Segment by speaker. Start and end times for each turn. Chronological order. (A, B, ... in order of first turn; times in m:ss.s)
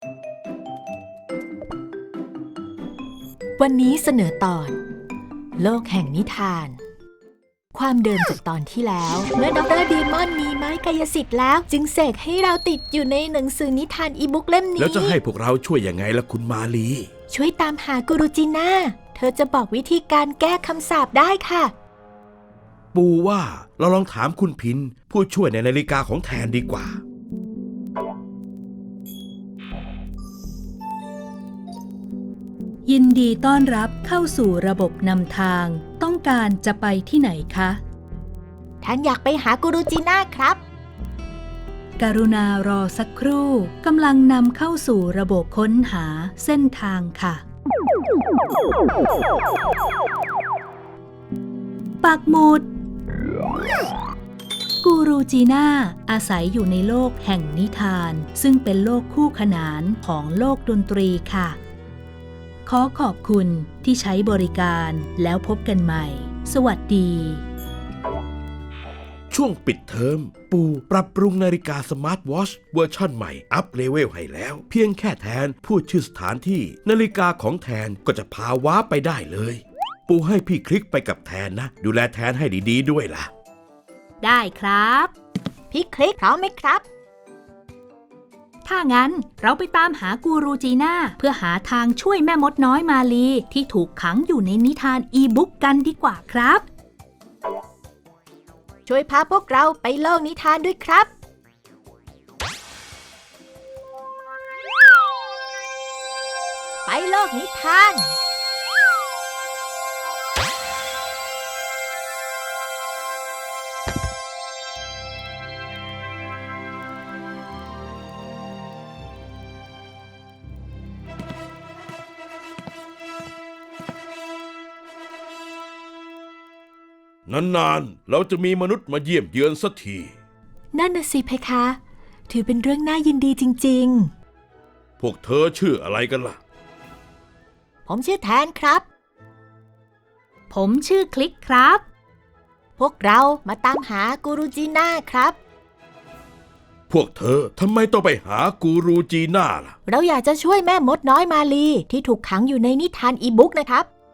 0:03.6-0:04.8 A
0:05.6-0:06.8 A
0:07.7-0:15.2 A
0:14.8-0:17.1 B
0:17.3-0:21.7 A
0:22.9-0:27.0 B
0:32.9-0:37.8 C
0:38.8-0:40.6 A
0:42.0-0:47.4 C
0:52.0-0:52.7 C
0:54.8-1:01.6 C
1:02.7-1:07.4 C
1:09.3-1:23.3 B
1:24.2-1:25.1 C
1:25.7-1:26.8 A
1:28.6-1:36.7 C
1:38.9-1:41.1 A
1:46.9-1:48.2 A
2:07.3-2:10.1 B
2:10.7-2:14.1 A
2:15.0-2:16.4 B
2:17.9-2:18.9 A
2:20.5-2:21.8 C
2:22.8-2:25.4 A
2:26.9-2:29.8 B
2:29.9-2:33.9 A